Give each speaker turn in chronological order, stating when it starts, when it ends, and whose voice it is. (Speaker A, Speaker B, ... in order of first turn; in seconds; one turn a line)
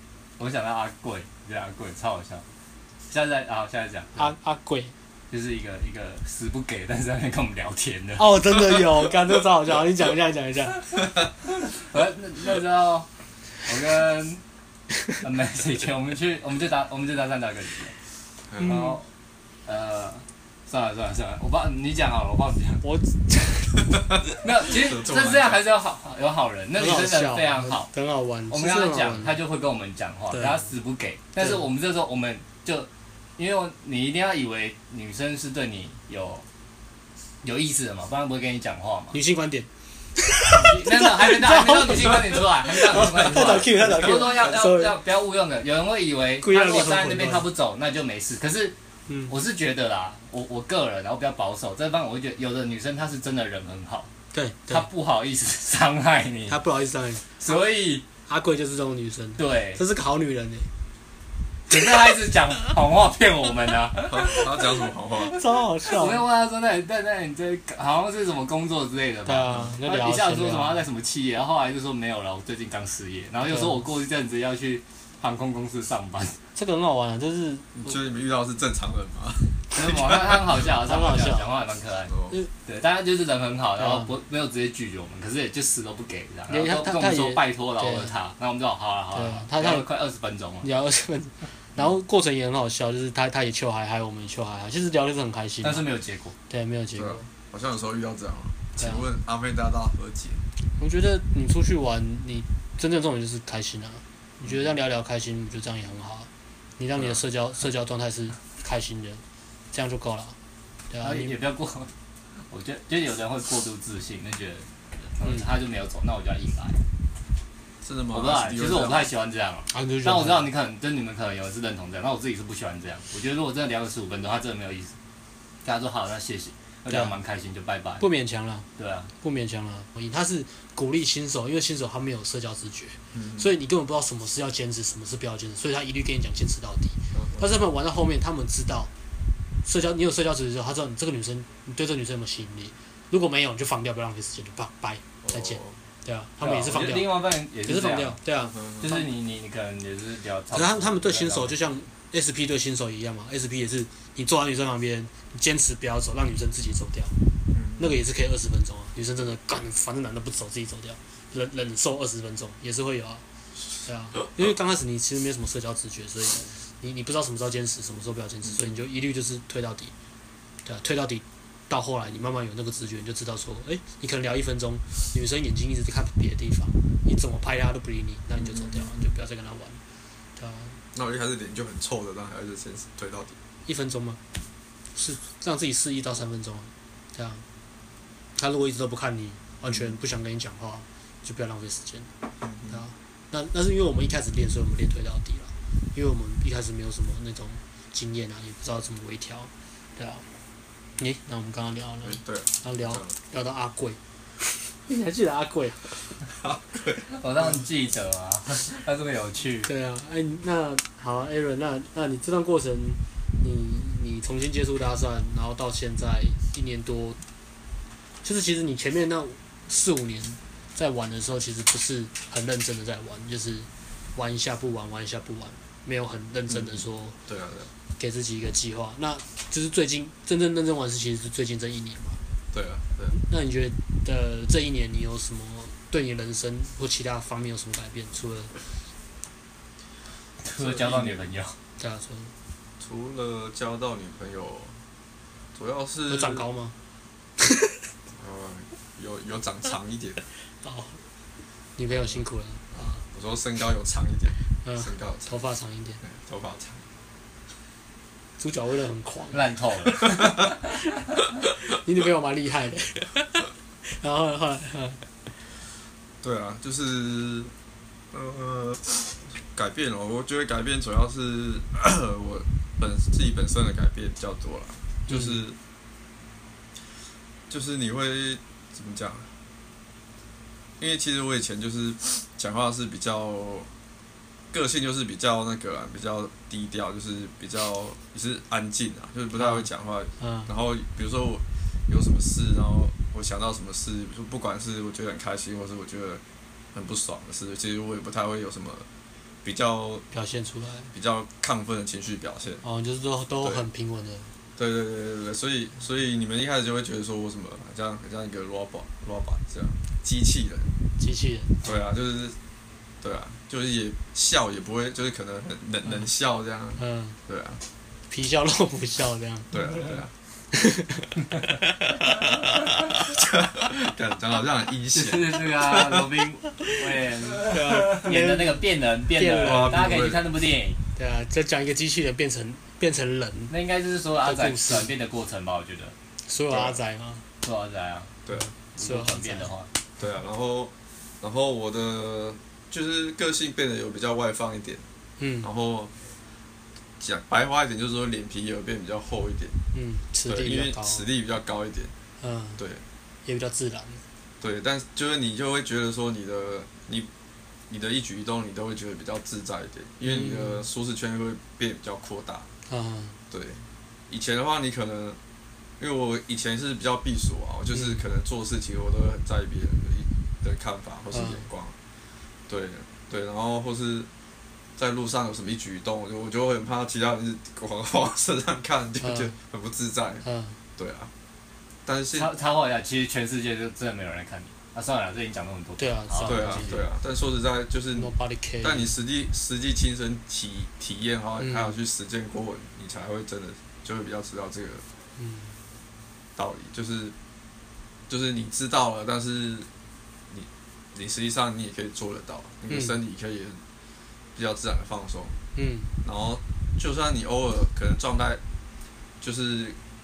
Speaker A: 0.4-2.4
Speaker A: 3.1-4.3
Speaker B: 4.2-4.9
Speaker A: 5.3-8.2
Speaker B: 8.2-10.9
Speaker A: 11.7-13.1
Speaker A: 13.6-14.4
Speaker A: 15.2-17.9
Speaker C: 18.5-18.7
Speaker B: 18.6-19.0
Speaker A: 18.6-19.0
Speaker A: 19.6-22.8
Speaker B: 22.8-23.9
Speaker A: 24.4-27.9
Speaker C: 24.7-25.6
Speaker B: 26.8-29.4
Speaker A: 28.5-36.4
Speaker B: 30.3-30.6
Speaker A: 37.4-39.1
Speaker B: 39.1-44.9
Speaker A: 40.5-48.8
Speaker B: 46.4-47.5
Speaker B: 49.1-49.3
Speaker A: 49.3-54.1
Speaker B: 54.3-54.9
Speaker A: 54.7-56.6
Speaker B: 56.5-57.3
Speaker A: 57.4-58.0
Speaker B: 58.2-60.7
Speaker A: 59.4-59.8
Speaker A: 61.7-64.7
Speaker C: 64.0-65.4
Speaker B: 65.3-66.2
Speaker A: 65.8-76.4
Speaker B: 69.2-70.8
Speaker B: 73.4-73.8
Speaker B: 76.5-78.0
Speaker C: 77.8-80.2
Speaker A: 79.7-90.7
Speaker B: 80.8-81.5
Speaker C: 82.1-82.4
Speaker B: 83.8-84.1
Speaker B: 86.5-88.1
Speaker B: 89.1-89.9
Speaker B: 90.6-95.8
Speaker A: 95.6-96.3
Speaker B: 96.5-97.2
Speaker C: 97.0-100.4
Speaker B: 98.8-99.0
Speaker B: 100.8-110.3
Speaker B: 110.9-111.3
Speaker A: 111.0-111.9
Speaker A: 112.5-116.8
Speaker C: 117.8-119.1
Speaker A: 118.1-124.9
Speaker B: 119.7-120.5
Speaker A: 125.6-128.0
Speaker B: 126.9-127.1
Speaker B: 128.0-128.7
Speaker A: 128.8-129.1
Speaker B: 129.2-138.9
Speaker C: 133.1-133.5
Speaker C: 137.1-137.5
Speaker B: 139.6-149.0
Speaker C: 145.2-145.8
Speaker A: 146.4-148.2
Speaker C: 148.5-148.9
Speaker A: 148.8-151.6
Speaker B: 150.5-157.1
Speaker C: 157.5-158.0
Speaker B: 157.8-163.2
Speaker B: 163.8-169.9
Speaker B: 170.6-179.8
Speaker C: 178.4-179.0
Speaker B: 180.3-180.8
Speaker C: 180.9-183.4
Speaker B: 183.7-184.2
Speaker B: 184.9-187.4
Speaker B: 188.3-192.1
Speaker C: 192.4-192.8
Speaker B: 192.7-200.2
Speaker B: 201.0-204.0
Speaker C: 202.0-203.1
Speaker B: 204.7-205.9
Speaker C: 206.3-207.1
Speaker A: 207.2-209.7
Speaker B: 209.7-217.2
Speaker B: 218.2-227.2
Speaker C: 226.5-227.7
Speaker B: 228.0-232.2
Speaker C: 232.5-233.2
Speaker B: 233.1-238.5
Speaker A: 240.4-241.6
Speaker C: 240.6-241.2
Speaker B: 241.8-242.3
Speaker C: 242.8-244.8
Speaker C: 245.5-246.4
Speaker B: 246.1-246.7
Speaker B: 247.4-247.7
Speaker C: 248.1-250.2
Speaker B: 250.6-251.0
Speaker B: 251.8-253.0
Speaker C: 252.8-255.3
Speaker B: 254.6-256.0
Speaker C: 256.0-256.8
Speaker B: 258.4-259.4
Speaker A: 259.3-260.4
Speaker B: 261.7-265.0
Speaker C: 266.2-267.5
Speaker C: 268.1-275.6
Speaker B: 275.1-275.4
Speaker C: 277.5-279.3
Speaker C: 280.8-283.7
Speaker C: 284.5-296.2
Speaker B: 289.4-289.6
Speaker B: 290.2-290.5
Speaker C: 296.7-298.9
Speaker C: 299.4-300.1
Speaker B: 300.1-300.9
Speaker C: 300.9-302.6
Speaker B: 302.6-304.3
Speaker C: 304.6-310.7
Speaker B: 311.0-311.6
Speaker C: 311.6-312.4
Speaker C: 313.0-317.6
Speaker B: 316.8-317.2
Speaker B: 318.1-319.9
Speaker C: 319.5-320.1
Speaker B: 320.5-321.2
Speaker C: 323.0-326.1
Speaker A: 324.9-330.8
Speaker B: 327.5-329.9
Speaker C: 327.5-328.0
Speaker C: 329.4-330.3
Speaker B: 330.9-333.5
Speaker A: 333.5-335.9
Speaker B: 334.2-334.9
Speaker B: 336.3-337.2
Speaker C: 336.5-336.8
Speaker A: 337.4-338.2
Speaker B: 338.4-339.5
Speaker A: 338.7-339.7
Speaker C: 340.0-344.8
Speaker B: 345.2-345.5
Speaker C: 345.4-345.9
Speaker C: 347.0-349.6
Speaker B: 349.7-351.1
Speaker C: 350.2-351.9
Speaker B: 352.2-352.6
Speaker C: 352.6-352.8
Speaker B: 353.2-354.0
Speaker C: 354.4-357.1
Speaker C: 357.7-362.5
Speaker B: 360.0-360.6
Speaker B: 362.7-363.2
Speaker C: 363.3-365.2
Speaker C: 365.8-371.7
Speaker B: 367.7-368.0
Speaker B: 371.1-371.5
Speaker C: 372.5-374.1
Speaker C: 374.8-380.2
Speaker B: 379.0-379.3
Speaker B: 380.2-380.6
Speaker C: 380.8-381.1
Speaker C: 381.9-382.3
Speaker A: 382.1-386.8
Speaker B: 385.8-386.8
Speaker C: 386.2-394.8
Speaker B: 388.0-388.9
Speaker B: 391.4-391.7
Speaker B: 395.2-395.5
Speaker C: 396.4-397.1
Speaker C: 398.1-399.7
Speaker C: 400.3-403.6
Speaker B: 402.7-403.0
Speaker C: 404.3-405.3
Speaker B: 405.5-405.9
Speaker C: 406.0-408.4
Speaker C: 409.2-409.8